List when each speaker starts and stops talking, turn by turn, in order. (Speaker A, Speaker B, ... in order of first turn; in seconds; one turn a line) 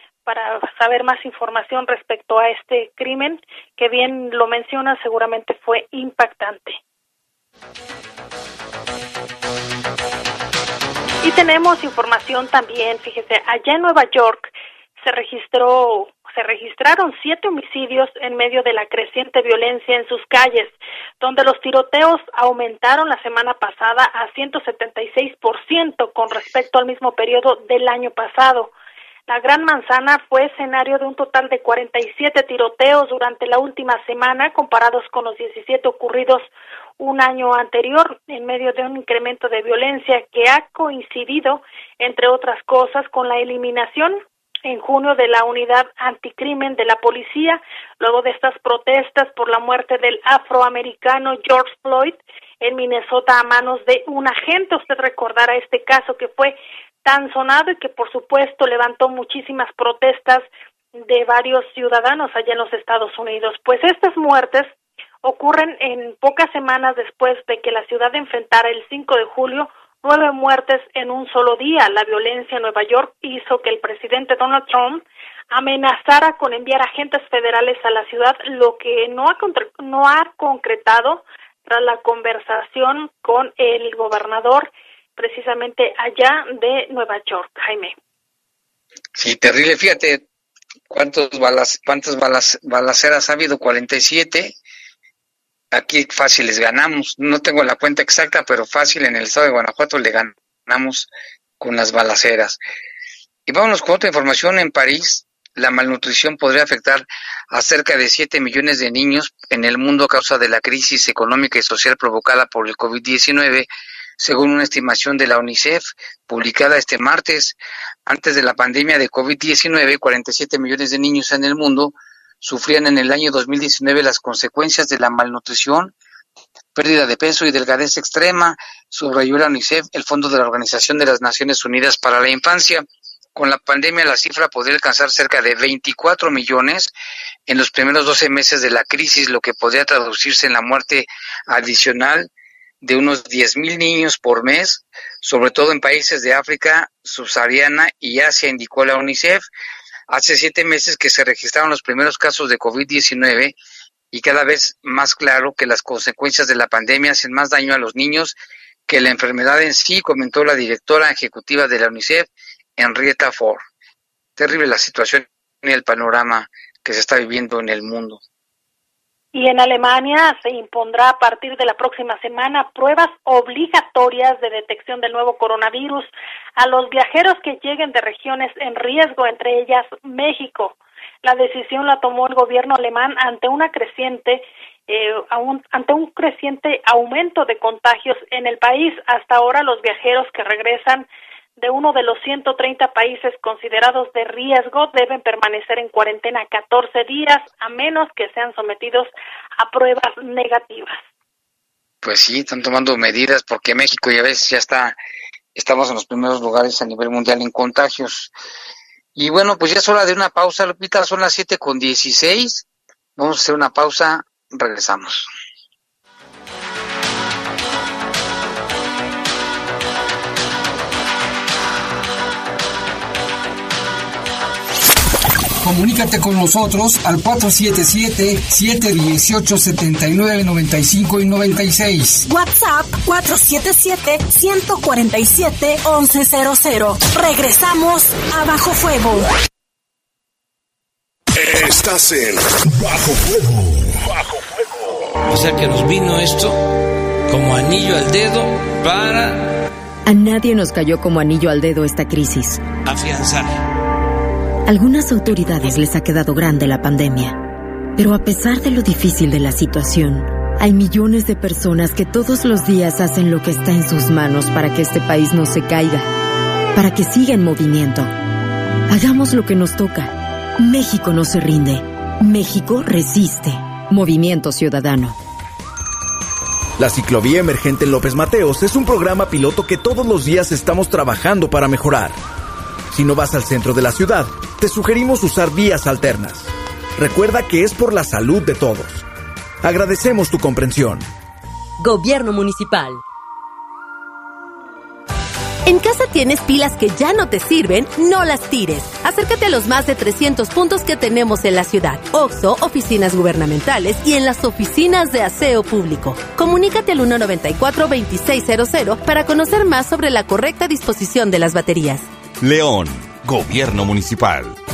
Speaker A: 0.3-6.8
Speaker A: 11.2-28.7
Speaker A: 29.3-60.5
Speaker A: 61.0-64.7
Speaker A: 65.2-87.9
Speaker B: 89.2-90.2
Speaker B: 90.9-94.5
Speaker B: 95.7-101.1
Speaker B: 101.6-102.6
Speaker B: 103.5-113.7
Speaker B: 114.2-125.9
Speaker B: 126.8-132.8
Speaker B: 133.4-136.9
Speaker B: 137.5-142.3
Speaker B: 142.8-149.5
Speaker B: 150.1-153.6
Speaker B: 154.1-158.4
Speaker B: 158.9-163.6
Speaker B: 164.4-168.2
Speaker A: 169.3-191.1
Speaker A: 191.6-201.0
Speaker B: 202.0-205.0
Speaker B: 205.6-208.3
Speaker B: 209.2-212.7
Speaker B: 213.2-215.3
Speaker C: 225.6-232.2
Speaker D: 232.2-239.3
Speaker E: 241.3-245.2
Speaker F: 245.3-246.7
Speaker F: 247.3-249.5
Speaker G: 250.1-252.7
Speaker F: 252.8-253.6
Speaker G: 254.7-257.4
Speaker G: 258.0-266.1
Speaker G: 266.8-268.1
Speaker G: 268.9-275.2
Speaker H: 276.8-282.2
Speaker H: 282.9-289.0
Speaker H: 289.6-291.1
Speaker I: 291.8-293.0
Speaker I: 295.7-312.1
Speaker J: 312.4-314.6